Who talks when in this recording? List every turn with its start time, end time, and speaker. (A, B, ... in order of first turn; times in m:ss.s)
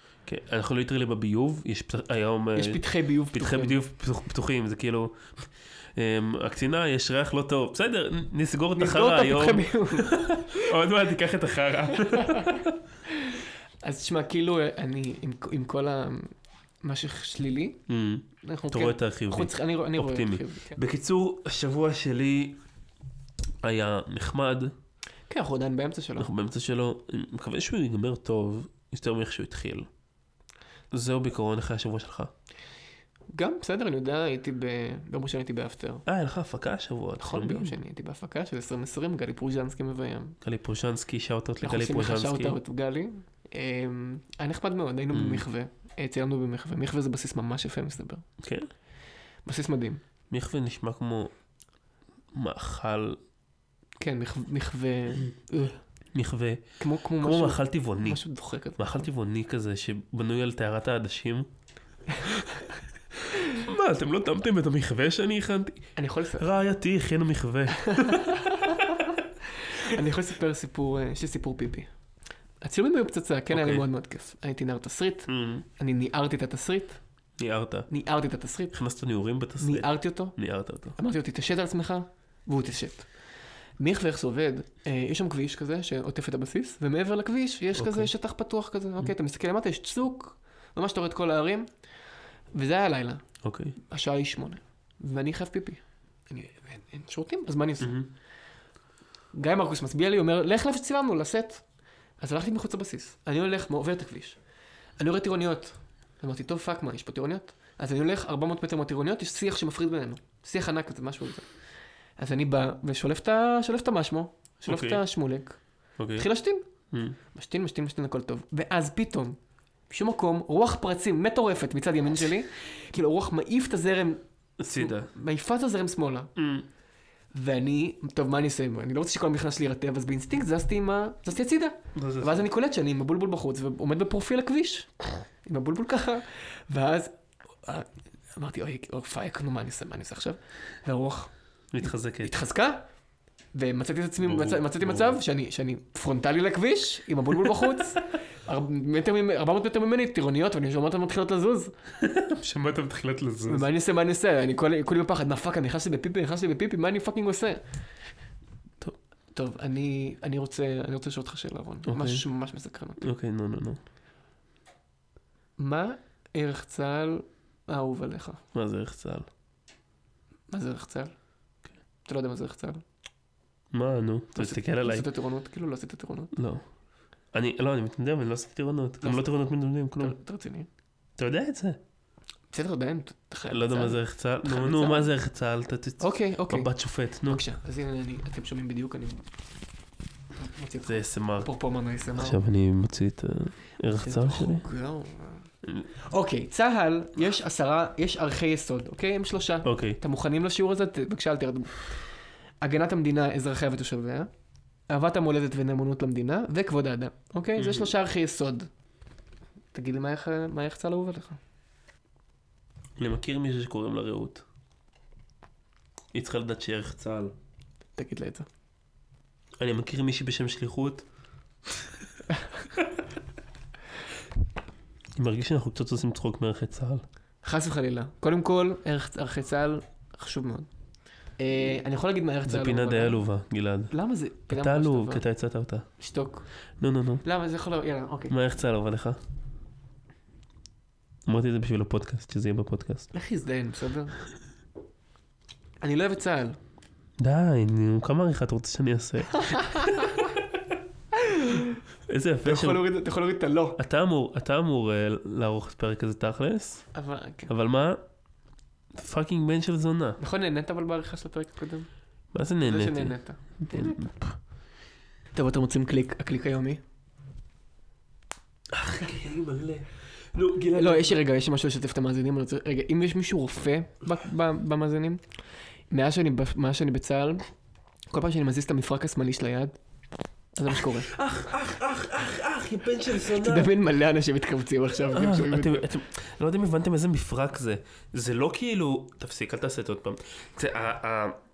0:00.2-0:12.8 A
0:02.6-0:03.8 B
0:08.8-0:10.2 B
0:12.1-0:17.8 B
0:17.9-0:22.6 A
0:18.4-0:20.8 B
0:23.6-0:24.7 A
0:25.3-0:26.3 B
0:26.2-0:29.9 A
0:30.9-0:32.3 A
0:33.3-0:36.0 B
0:36.1-0:37.8 A
0:37.2-0:40.4 B
0:40.4-0:42.6 A
0:41.6-0:48.3 B
0:45.1-0:45.4 A
0:48.4-0:48.7 A
0:49.4-0:50.0 B
0:50.3-0:51.3 A
0:52.3-0:53.2 A
0:54.0-0:55.8 B
0:56.1-0:56.6 A
0:56.8-0:59.1 B
0:57.2-1:01.5 A
1:03.4-1:08.4 A
1:06.0-1:06.5 B
1:07.8-1:09.0 B
1:09.6-1:11.9 B
1:12.6-1:17.0 B
1:13.5-1:13.8 A
1:15.3-1:15.7 A
1:17.4-1:17.9 A
1:17.9-1:18.8 B
1:18.7-1:21.0 A
1:19.6-1:20.4 B
1:21.0-1:23.1 B
1:23.8-1:31.7 B
1:27.8-1:28.1 A
1:32.5-1:33.2 B
1:33.4-1:33.8 A
1:33.8-1:38.0 B
1:37.8-1:38.1 A
1:39.3-1:41.6 B
1:42.2-1:44.4 B
1:45.0-1:51.5 B
1:52.2-1:55.6 B
1:54.6-1:55.0 A
1:56.0-1:56.3 A
1:56.2-1:56.7 B
1:56.9-1:57.2 A
1:57.3-1:59.4 B
1:59.9-2:04.2 B
2:04.6-2:05.1 A
2:04.8-2:06.3 B
2:06.4-2:06.7 A
2:07.3-2:22.9 B
2:12.0-2:12.4 A
2:21.7-2:22.4 A
2:23.5-2:31.7 B
2:24.2-2:25.2 A
2:27.5-2:27.8 A
2:32.0-2:33.7 A
2:33.5-2:37.6 B
2:39.3-2:43.1 B
2:41.9-2:42.2 A
2:43.0-2:43.8 A
2:45.6-2:48.4 B
2:48.5-2:49.3 A
2:50.5-2:51.1 B
2:52.0-2:52.8 B
2:53.7-2:55.1 A
2:54.4-2:56.3 B
2:56.3-2:56.6 A
2:57.3-3:00.2 A
2:59.0-2:59.3 B
3:00.0-3:00.7 B
3:01.2-3:01.8 A
3:02.5-3:05.1 B
3:03.5-3:07.4 A
3:06.0-3:06.7 B
3:07.2-3:09.2 B
3:10.4-3:12.4 B
3:10.8-3:11.5 A
3:12.2-3:14.6 A
3:14.0-3:15.5 B
3:16.1-3:22.0 B
3:19.6-3:20.0 A
3:22.6-3:24.3 B
3:24.9-3:28.7 B
3:27.6-3:27.9 A
3:29.7-3:31.4 B
3:33.0-3:34.4 A
3:36.1-3:37.4 A
3:38.0-3:38.5 B
3:39.6-3:41.0 A
3:42.8-3:43.0 A
3:45.2-3:47.0 A
3:47.4-3:50.7 B
3:51.4-3:53.2 B
3:52.4-3:53.9 A
3:53.9-3:55.2 B
3:54.5-3:55.9 A
3:56.0-3:56.4 B
3:56.8-3:57.2 A
3:57.2-3:58.3 B
3:58.3-3:59.2 A
4:01.3-4:03.1 A
4:03.1-4:04.2 B
4:05.8-4:06.6 B
4:07.2-4:10.2 A
4:09.4-4:10.2 B
4:11.2-4:11.8 B
4:12.1-4:12.8 A
4:12.4-4:13.8 B
4:13.8-4:16.9 A
4:16.9-4:17.5 B
4:17.5-4:18.0 A
4:18.9-4:20.2 A
4:20.2-4:21.9 B
4:22.3-4:24.4 A
4:22.6-4:24.1 B
4:25.3-4:26.8 B
4:28.7-4:31.2 A
4:30.8-4:35.2 B
4:35.9-4:37.5 B
4:38.1-4:39.8 B
4:40.6-4:41.1 B
4:40.7-4:43.7 A
4:43.2-4:45.9 B
4:45.1-4:51.4 A